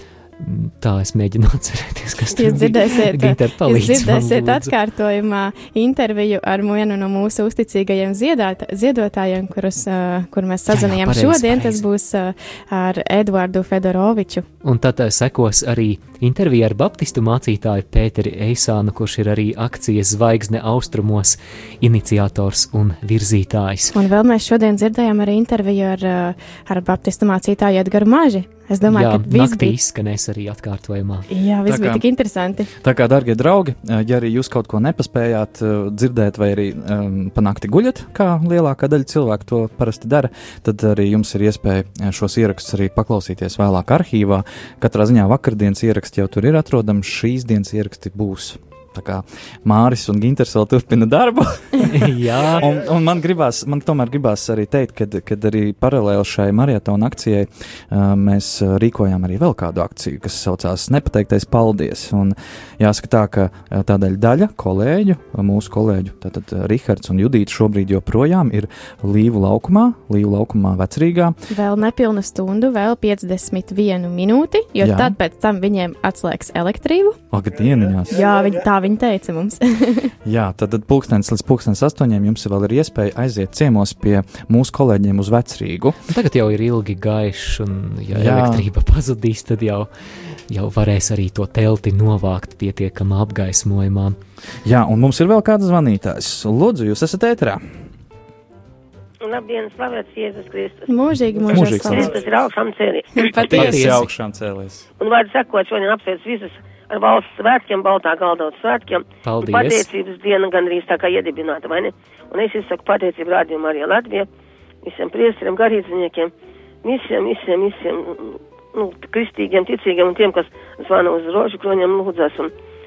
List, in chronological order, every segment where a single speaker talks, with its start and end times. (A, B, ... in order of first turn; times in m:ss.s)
0:00.4-0:04.7 A
0:02.4-0:14.4 B
0:10.7-0:11.8 A
0:14.6-0:24.0 A
0:23.9-0:29.8 B
0:28.9-0:31.3 A
0:31.3-0:32.7 B
0:31.7-0:32.1 C
0:32.8-1:11.4 C
0:51.9-0:52.7 A
1:11.5-1:17.2 B
1:14.8-1:15.1 C
1:17.3-1:18.2 C
1:18.1-1:20.1 B
1:20.2-1:26.0 C
1:26.1-1:29.9 A
1:28.1-1:28.7 C
1:30.5-1:34.2 A
1:34.6-1:37.6 C
1:39.2-1:40.9 D
1:40.9-1:42.2 B
1:41.5-1:43.2 D
1:41.5-1:42.2 C
1:43.2-1:44.9 C
1:43.4-1:44.1 A
1:45.0-1:54.3 D
1:49.2-1:49.9 A
1:54.8-1:56.3 D
1:56.8-2:02.5 D